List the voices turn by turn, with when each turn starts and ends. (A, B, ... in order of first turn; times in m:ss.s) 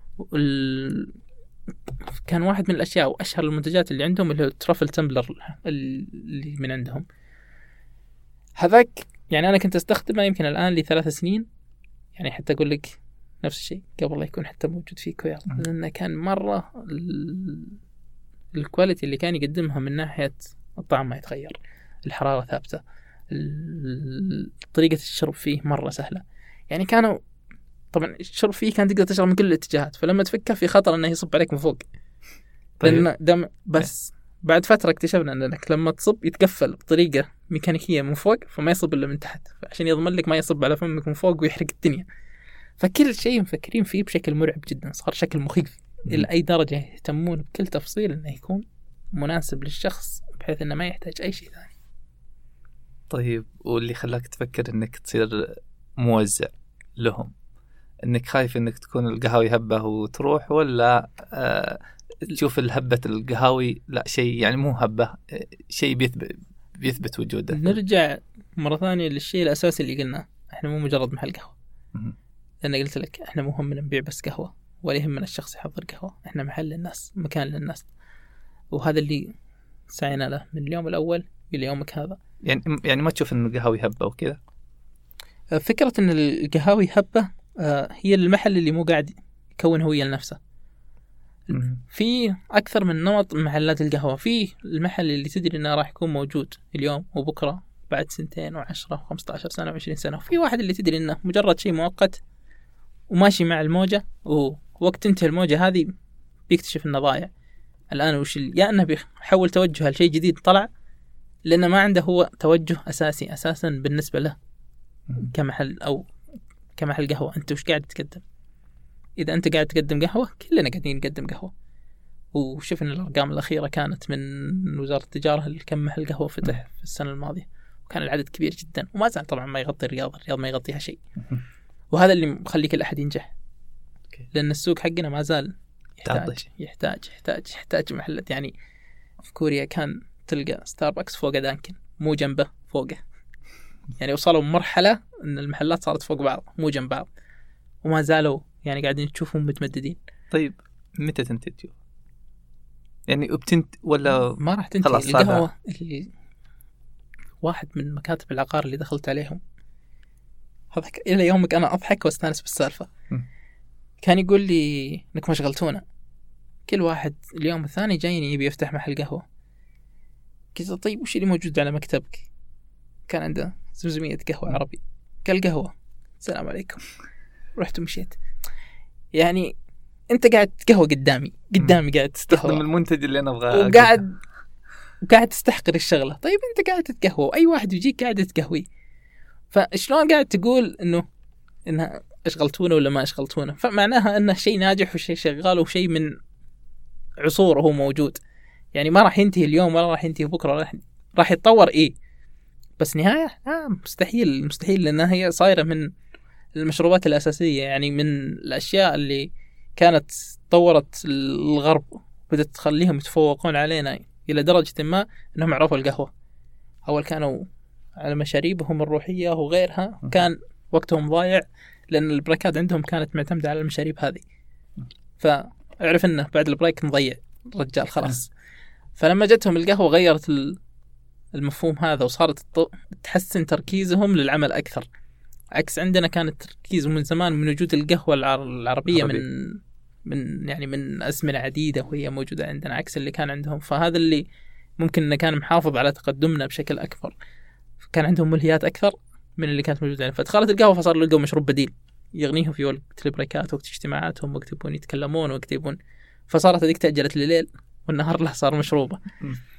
0:00.2-0:01.2 A
0:02.1-0:07.0 A
0:08.6-0:11.4 A
0:12.2-0:17.8 A
0:18.5-0:27.2 A
0:27.9-0:31.8 A
0:32.8-0:33.1 B
0:32.8-0:42.0 A
0:42.8-0:51.7 A
0:53.1-0:57.3 B
0:58.0-1:07.8 B
1:07.5-1:11.6 A
1:12.6-1:17.9 A
1:18.7-1:19.3 A
1:19.9-1:22.2 A
1:22.4-1:24.4 B
1:25.5-1:30.4 A
1:31.5-1:31.8 B
1:31.8-1:42.2 A
1:43.1-1:45.9 A
1:46.5-1:47.3 A
1:47.9-1:50.7 A
1:51.4-1:54.4 A
1:55.2-1:56.1 A
1:56.8-1:58.2 A
1:59.2-2:01.5 A
2:02.3-2:11.0 A
2:11.9-2:13.3 A
2:14.3-2:18.5 A
2:16.0-2:16.4 B
2:19.2-2:23.0 A
2:24.0-2:27.1 A
2:27.8-2:30.0 A
2:30.3-2:31.8 B
2:33.1-2:35.4 B
2:34.4-2:36.1 A
2:37.4-2:39.4 A
2:40.7-2:42.9 A
2:44.0-2:45.8 A
2:46.7-2:49.2 A
2:50.5-2:52.3 A
2:53.1-2:56.8 A
2:57.6-2:58.2 A
2:59.1-2:59.5 A
3:00.1-3:02.6 A
3:01.6-3:04.0 B
3:03.5-3:04.2 A
3:05.0-3:08.6 A
3:09.5-3:11.0 A
3:11.7-3:16.1 A
3:17.2-3:18.2 A
3:18.7-3:21.9 A
3:22.8-3:25.9 A
3:26.6-3:36.1 A
3:36.8-3:37.5 A
3:38.0-3:44.2 A
3:45.2-3:48.3 A
3:49.0-3:50.6 A
3:51.3-3:54.8 A
3:55.5-4:04.2 A
3:58.9-3:59.2 B
4:04.8-4:07.2 A
4:07.8-4:15.8 A
4:16.3-4:19.0 A